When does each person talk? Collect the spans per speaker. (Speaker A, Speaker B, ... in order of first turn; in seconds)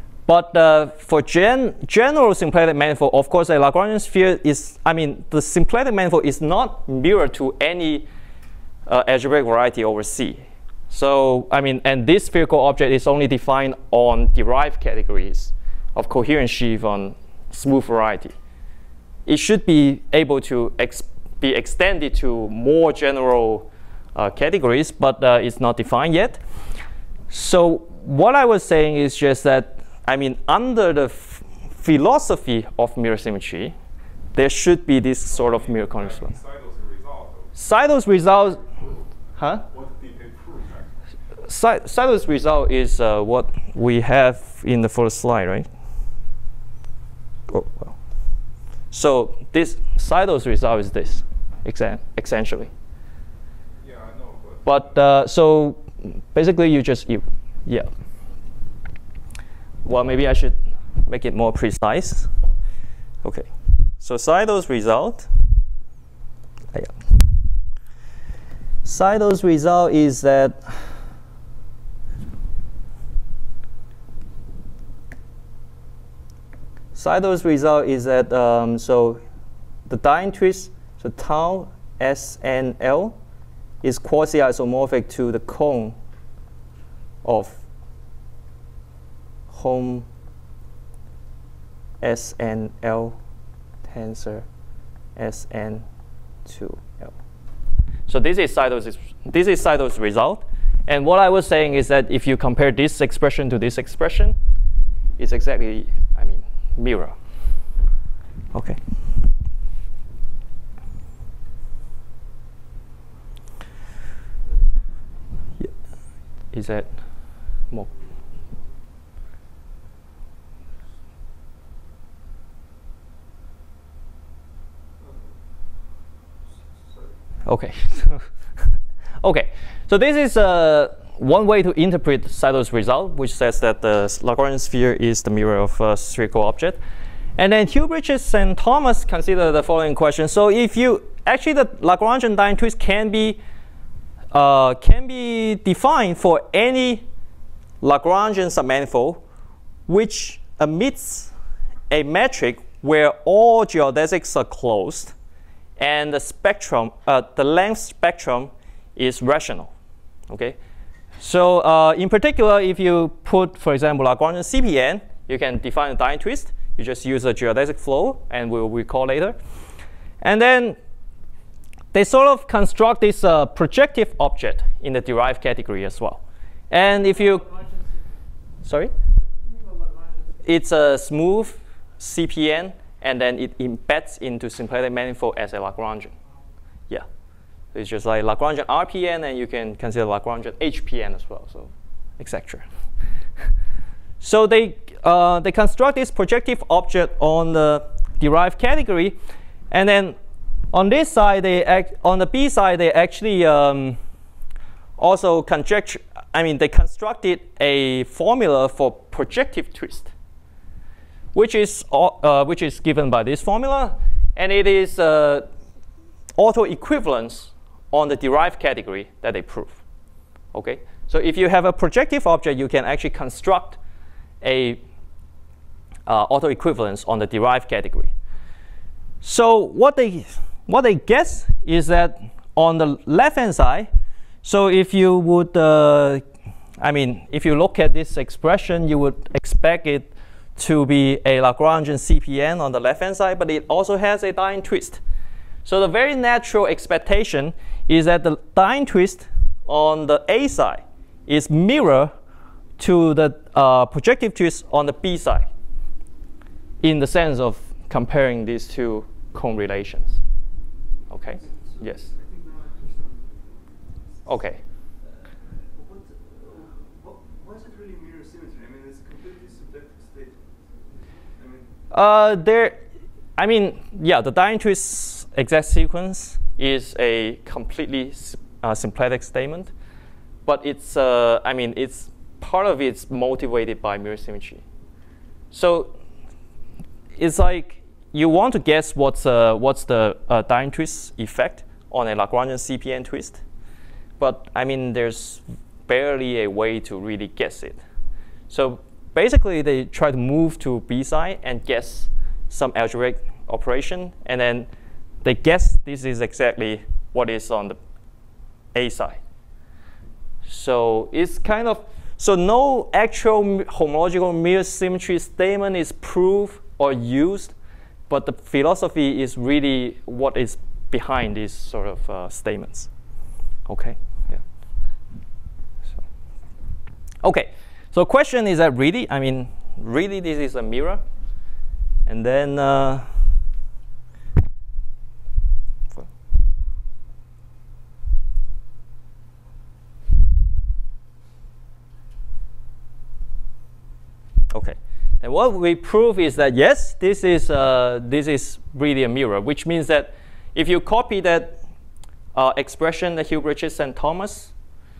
Speaker A: 0.3-8.1, 8.9-18.3, 19.2-26.4, 27.3-33.7, 34.3-36.4, 37.5-38.6, 39.4-39.6, 41.5-45.7, 47.5-48.0, 48.9-52.7, 54.6-57.9, 59.8-62.3, 63.2-63.5, 64.0-65.3, 68.8-70.8, 76.9-79.2, 79.9-83.2, 83.8-86.0, 87.2-87.6, 89.5-90.0, 92.0-93.2, 93.9-94.5, 95.2-95.8, 96.5-97.1, 98.1-104.3, 105.2-107.2, 108.5-108.8, 116.5-116.9, 127.5-128.2, 129.2-136.8, 137.4-143.4, 144.3-147.1, 147.8-149.2, 149.9-151.3, 151.9-155.1, 155.8-159.7, 160.3-160.6, 161.2-169.4, 170.2-170.8, 171.9-177.6, 178.6-178.9, 180.4-186.1, 187.7-192.7, 194.2-199.2, 199.7-200.2, 200.7-204.0, 205.0-210.1, 211.3-215.5, 216.4-219.8, 220.5-223.8, 224.4-224.8, 226.1-228.1, 229.2-233.9, 234.4-236.2, 236.8-245.0, 245.6-252.1, 252.8-255.5, 256.8-260.2, 261.1-262.1, 264.3-264.6, 271.9-272.8, 273.4-279.7, 280.4-284.6, 285.5-285.9, 287.1-293.4, 294.2-297.8, 298.5-304.7, 305.2-307.8, 308.7-309.2, 310.4-317.5, 318.1-322.9, 323.7-324.4, 327.2-331.0, 332.1-333.1, 344.5-351.6, 352.3-354.5
Speaker B: 35.3-37.5, 39.6-41.0, 53.8-54.8
Speaker C: 177.5-177.8, 179.5-180.3, 261.3-264.3, 265.5-271.7